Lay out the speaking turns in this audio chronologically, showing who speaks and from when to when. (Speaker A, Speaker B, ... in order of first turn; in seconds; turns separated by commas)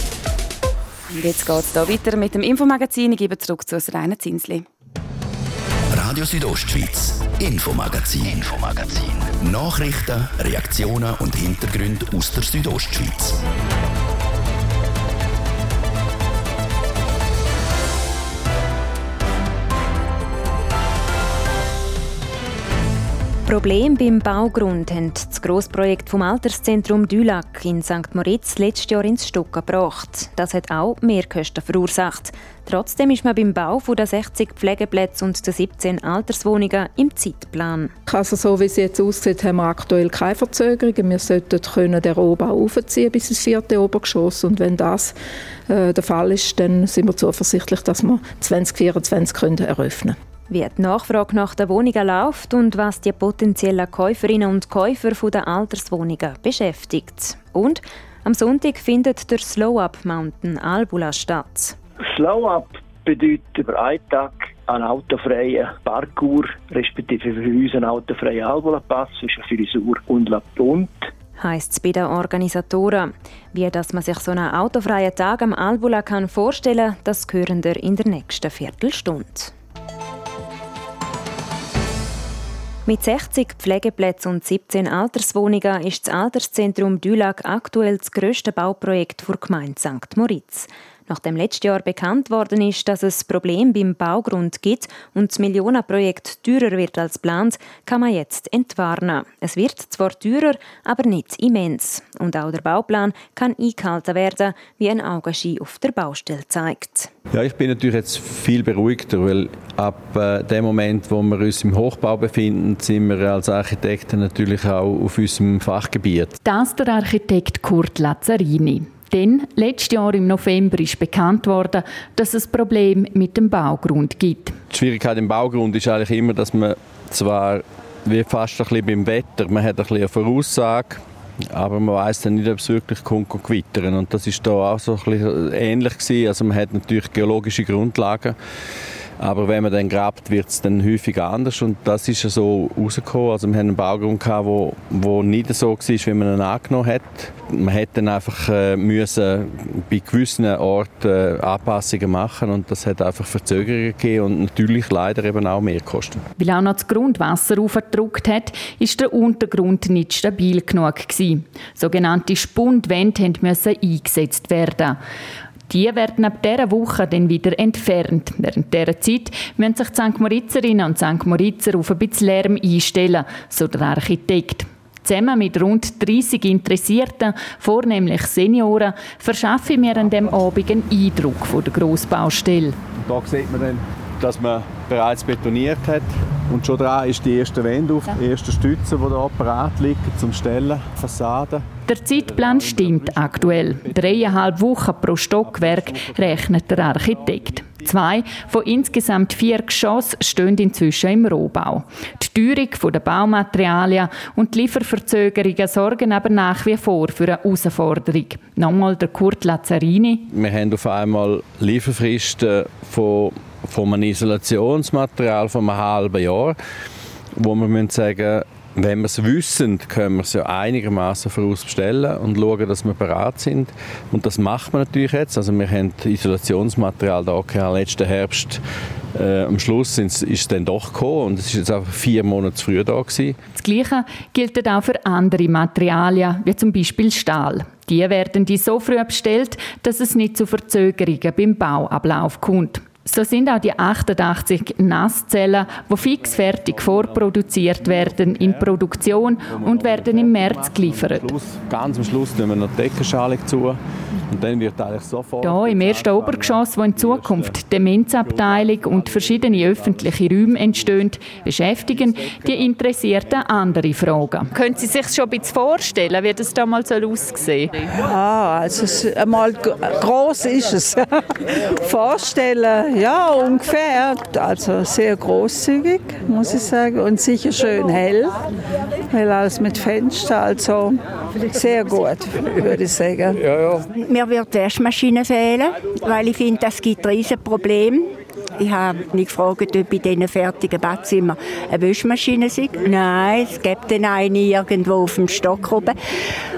Speaker A: 1.1-4.7, Speaker B: 5.9-13.4, Speaker C: 23.4-37.9, Speaker D: 38.1-45.1, Speaker D: 45.7-50.2, Speaker C: 50.5-61.7, Speaker E: 62.0-71.1, Speaker C: 71.4-79.5, Speaker C: 82.8-107.1, Speaker F: 107.3-116.3, Speaker G: 116.4-124.6, Speaker F: 124.7-138.3, Speaker F: 139.2-156.2, Speaker G: 156.4-165.0, Speaker G: 165.7-182.7, Speaker F: 183.0-194.4, Speaker G: 191.9-210.3, Speaker F: 195.4-197.7, Speaker F: 210.3-216.6, Speaker F: 217.4-228.6, Speaker F: 229.1-233.3, Speaker G: 233.5-251.3, Speaker F: 247.8-248.6, Speaker F: 249.5-253.8, Speaker F: 254.3-257.5, Speaker G: 255.4-267.8, Speaker H: 267.9-278.4, Speaker H: 279.1-283.8, Speaker I: 283.9-295.9